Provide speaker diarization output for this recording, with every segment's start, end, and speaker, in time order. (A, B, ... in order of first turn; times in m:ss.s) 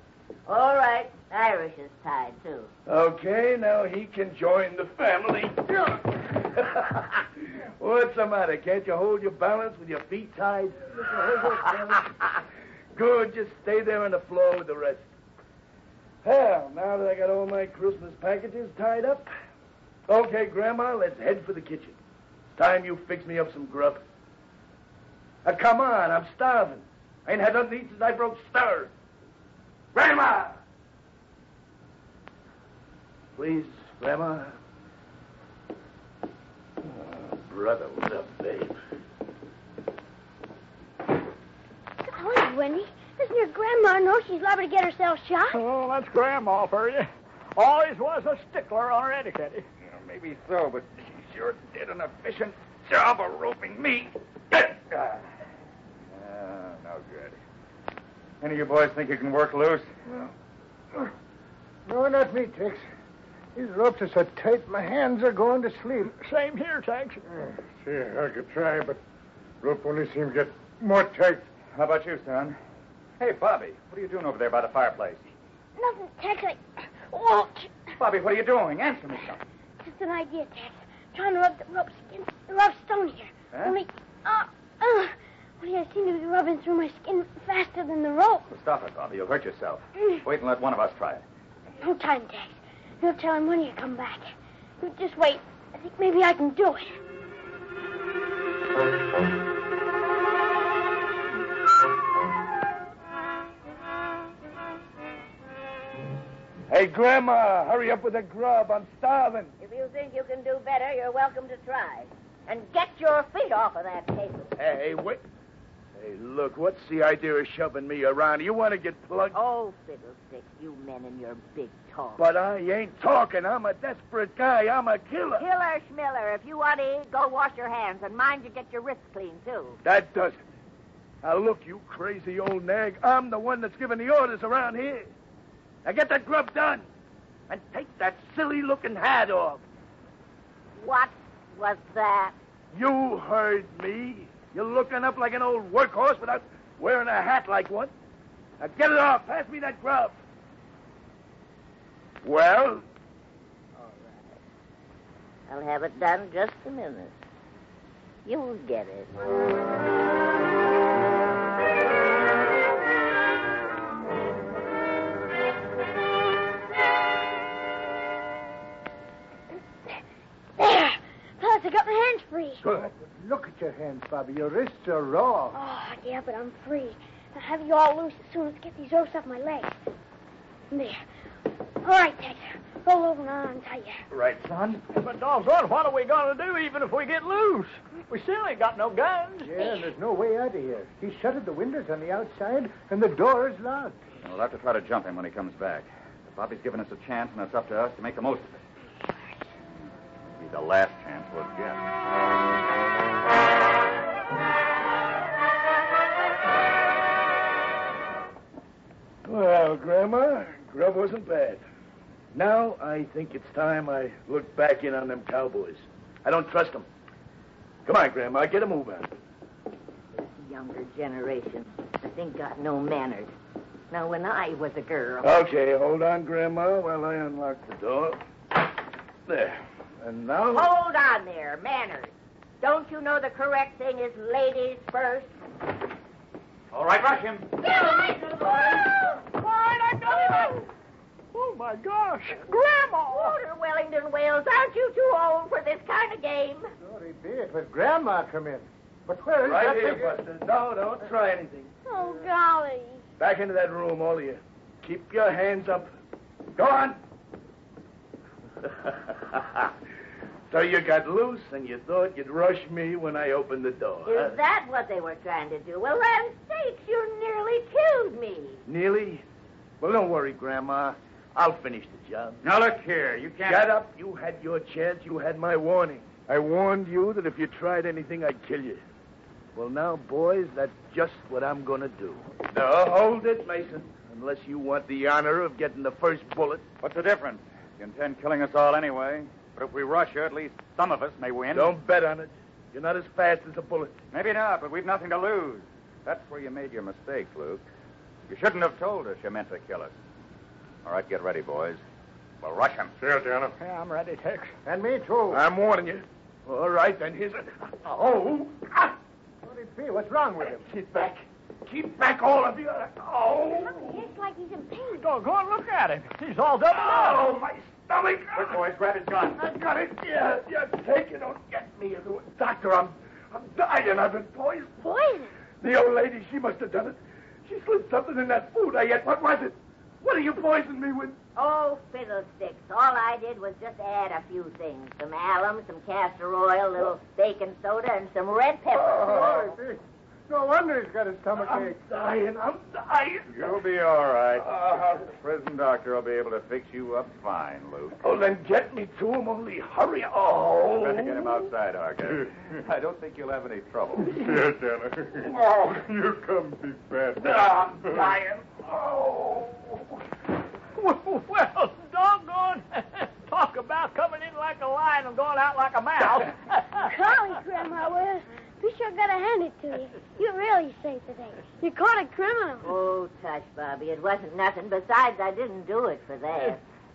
0:00.5-0:02.7 A
0:02.9-0:15.0 B
0:16.2-0:19.3 B
0:20.1-0:22.0 B
0:22.6-0:24.0 B
0:25.4-0:28.9 B
0:29.9-0:30.6 B
0:33.4-0:34.6 B
0:36.8-0:38.8 B
0:42.0-0:45.6 C
0:45.5-0:49.6 D
0:49.8-0:55.3 E
0:56.1-0:57.4 E
0:58.4-0:59.9 E
1:01.8-1:02.8 F
1:03.5-1:06.1 F
1:06.2-1:07.2 D
1:07.4-1:09.0 G
1:09.6-1:11.4 G
1:11.7-1:12.6 E
1:13.2-1:15.3 E
1:15.8-1:17.9 C
1:18.0-1:19.4 E
1:19.8-1:28.5 C
1:28.5-1:31.2 E
1:31.8-1:37.0 C
1:46.7-1:49.5 B
1:49.6-1:54.6 A
1:54.6-1:55.2 B
1:56.0-1:59.4 B
1:59.3-2:02.2 A
2:02.2-2:05.4 B
2:05.4-2:09.8 A
2:09.8-2:10.4 B
2:11.2-2:15.1 B
2:15.8-2:16.9 B
2:17.5-2:19.6 B
2:20.8-2:22.3 A
2:22.7-2:27.9 B
2:28.6-2:30.2 B
2:32.2-2:32.8 B
2:33.8-2:34.4 A
2:35.5-2:37.2 A
2:38.2-2:39.1 A
2:50.6-2:52.6 C
2:52.6-2:55.6 F
2:55.5-2:59.7 C
3:00.7-3:01.0 C
3:01.8-3:04.0 C
3:04.1-3:04.8 B
3:04.9-3:09.5 D
3:09.4-3:14.0 F
3:14.2-3:18.6 E
3:20.4-3:21.8 E
3:29.2-3:31.6 B
3:32.3-3:36.9 B
3:37.8-3:39.1 B
3:40.2-3:43.3 A
3:43.9-3:45.3 A
3:45.2-3:48.2 B
3:49.3-3:50.7 B
3:50.5-3:55.3 A
3:56.7-3:57.8 E
3:57.8-4:00.7 D
4:01.3-4:03.4 D
4:03.1-4:06.7 A
4:06.8-4:10.2 F
4:09.4-4:11.7 B
4:11.8-4:13.0 C
4:13.2-4:15.9 B
4:16.6-4:17.0 B
4:18.6-4:19.7 B
4:20.5-4:24.4 B
4:24.0-4:28.6 A
4:28.6-4:29.2 B
4:29.8-4:32.4 B
4:32.4-4:33.7 E
4:33.4-4:38.8 B
4:39.5-4:46.6 B
4:46.8-4:51.7 E
4:51.5-4:54.0 B
4:54.1-4:57.6 E
4:58.3-4:59.9 E
5:00.8-5:01.8 E
5:02.4-5:02.9 E
5:03.0-5:03.5 G
5:03.6-5:04.5 D
5:04.6-5:05.4 F
5:05.3-5:08.9 B
5:09.4-5:10.7 F
5:10.5-5:14.0 B
5:13.6-5:15.1 C
5:15.0-5:17.3 D
5:16.7-5:18.6 B
5:18.3-5:19.4 E
5:19.4-5:24.8 B
5:24.8-5:25.3 C
5:25.6-5:31.2 B
5:31.4-5:39.5 A
5:38.9-5:39.5 B
5:38.9-5:41.8 F
5:41.3-5:43.5 B
5:43.3-5:48.0 E
5:44.4-5:45.0 B
5:48.0-5:51.3 B
5:50.8-5:54.2 E
5:54.1-5:58.1 G
5:57.2-5:59.8 B
6:00.8-6:06.9 D
6:06.8-6:12.6 C
6:12.6-6:16.6 A